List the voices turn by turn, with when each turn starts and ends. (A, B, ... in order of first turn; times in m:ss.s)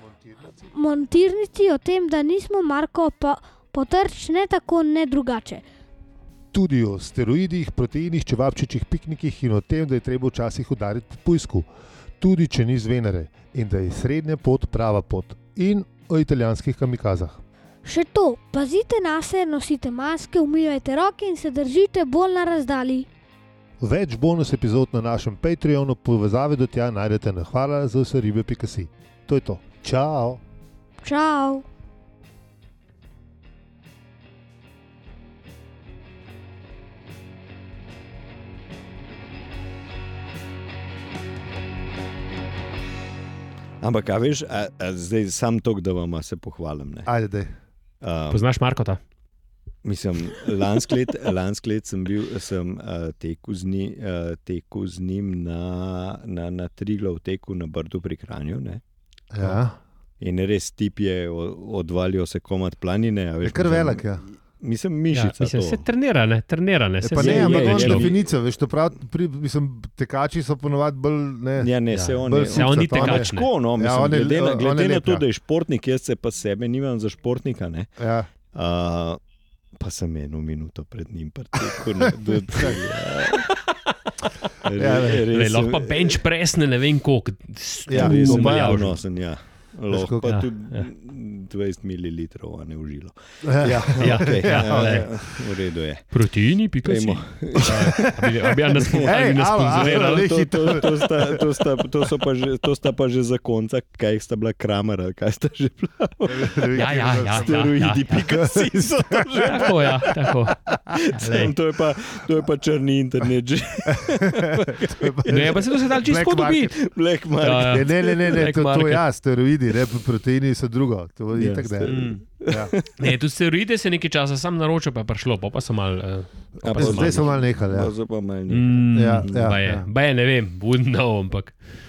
0:00.7-0:05.6 A
0:06.5-0:11.7 B
0:12.2-0:17.4 B
0:17.8-0:23.1 A
0:23.8-0:30.4 B
0:31.0-0:31.6 A
0:43.8-0:47.1 C
0:47.0-0:47.5 B
0:48.0-0:48.4 C
0:48.3-0:49.0 D
0:49.8-0:58.8 C
0:59.3-0:59.8 B
1:00.2-1:05.8 C
1:03.4-1:04.2 B
1:05.1-1:08.1 D
1:07.0-1:15.2 B
1:07.2-1:08.2 C
1:11.6-1:18.0 C
1:11.9-1:13.5 D
1:18.0-1:18.3 B
1:18.5-1:19.2 C
1:19.8-1:23.4 C
1:22.0-1:22.8 B
1:23.3-1:23.7 D
1:24.6-1:26.2 C
1:24.7-1:25.2 B
1:25.3-1:29.0 D
1:27.9-1:28.9 B
1:27.9-1:36.0 C
1:29.9-1:30.4 B
1:30.2-1:30.9 D
1:33.4-1:35.1 B
1:34.0-1:35.1 D
1:36.1-1:40.3 D
1:36.8-1:38.2 C
1:37.7-1:38.4 B
1:38.8-1:50.1 C
1:38.9-1:41.6 B
1:46.2-1:47.7 B
1:46.7-1:48.3 D
1:48.2-1:49.7 B
1:49.4-1:50.6 D
1:50.5-1:50.8 B
1:50.9-1:55.0 C
1:51.1-1:51.5 D
1:53.9-1:56.7 B
1:55.3-1:56.7 D
1:56.7-1:58.4 C
1:57.4-1:59.0 D
1:57.6-2:02.7 B
2:01.3-2:03.1 C
2:01.8-2:02.2 D
2:03.0-2:07.3 D
2:06.6-2:09.5 C
2:06.7-2:07.9 B
2:08.5-2:11.6 D
2:08.9-2:09.9 B